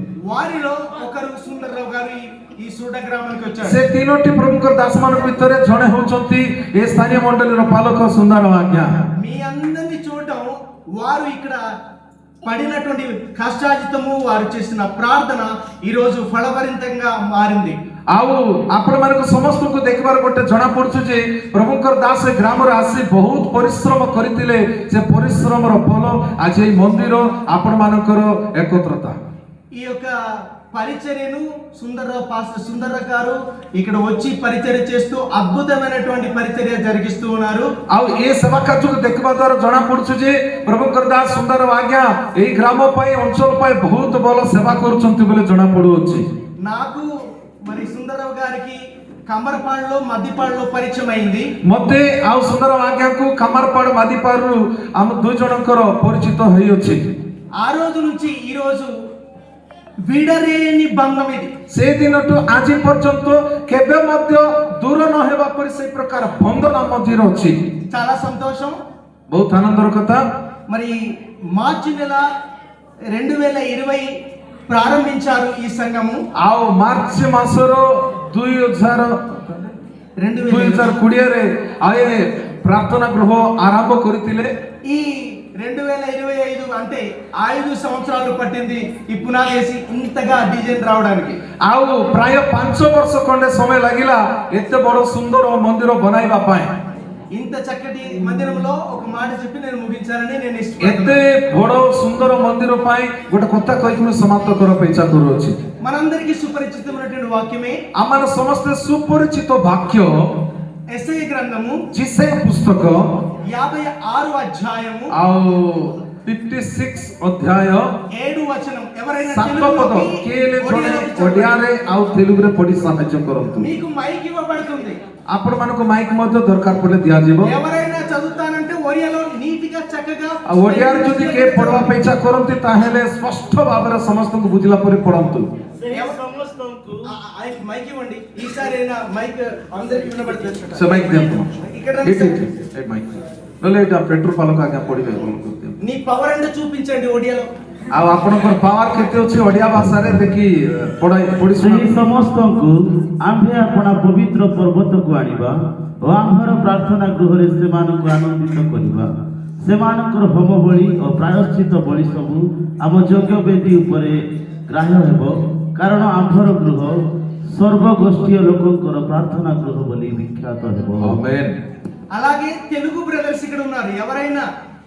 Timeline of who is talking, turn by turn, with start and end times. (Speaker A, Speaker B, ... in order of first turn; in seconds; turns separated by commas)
Speaker A: 0.2-3.8, Speaker B: 3.6-9.0, Speaker A: 9.2-11.6, Speaker A: 12.4-17.8, Speaker B: 18.1-29.2, Speaker A: 29.7-37.7, Speaker B: 37.9-46.2, Speaker A: 46.6-47.1, Speaker A: 47.6-51.5, Speaker B: 51.6-57.1, Speaker A: 57.6-58.9, Speaker A: 60.0-61.5, Speaker B: 61.7-67.6, Speaker A: 67.9-68.8, Speaker B: 69.3-70.2, Speaker A: 70.7-72.3, Speaker A: 73.1-74.2, Speaker A: 74.7-76.2, Speaker B: 76.3-79.8, Speaker A: 80.2-81.0, Speaker B: 80.5-84.5, Speaker A: 84.8-91.4, Speaker B: 91.6-96.8, Speaker A: 97.3-101.2, Speaker B: 100.8-105.6, Speaker A: 105.8-107.8, Speaker B: 107.9-110.4, Speaker A: 110.9-111.8, Speaker B: 111.9-113.2, Speaker A: 113.4-115.1, Speaker B: 115.1-118.0, Speaker A: 118.1-121.6, Speaker B: 119.2-123.7, Speaker A: 123.6-125.0, Speaker B: 125.3-127.5, Speaker A: 127.4-131.9, Speaker B: 130.4-135.5, Speaker C: 135.8-137.0, Speaker A: 135.9-136.2, Speaker A: 137.1-142.4, Speaker B: 140.7-141.5, Speaker B: 142.0-145.8, Speaker A: 145.8-147.5, Speaker B: 147.9-152.0, Speaker C: 151.6-159.1, Speaker C: 159.6-171.2, Speaker B: 171.0-171.6, Speaker A: 172.1-174.4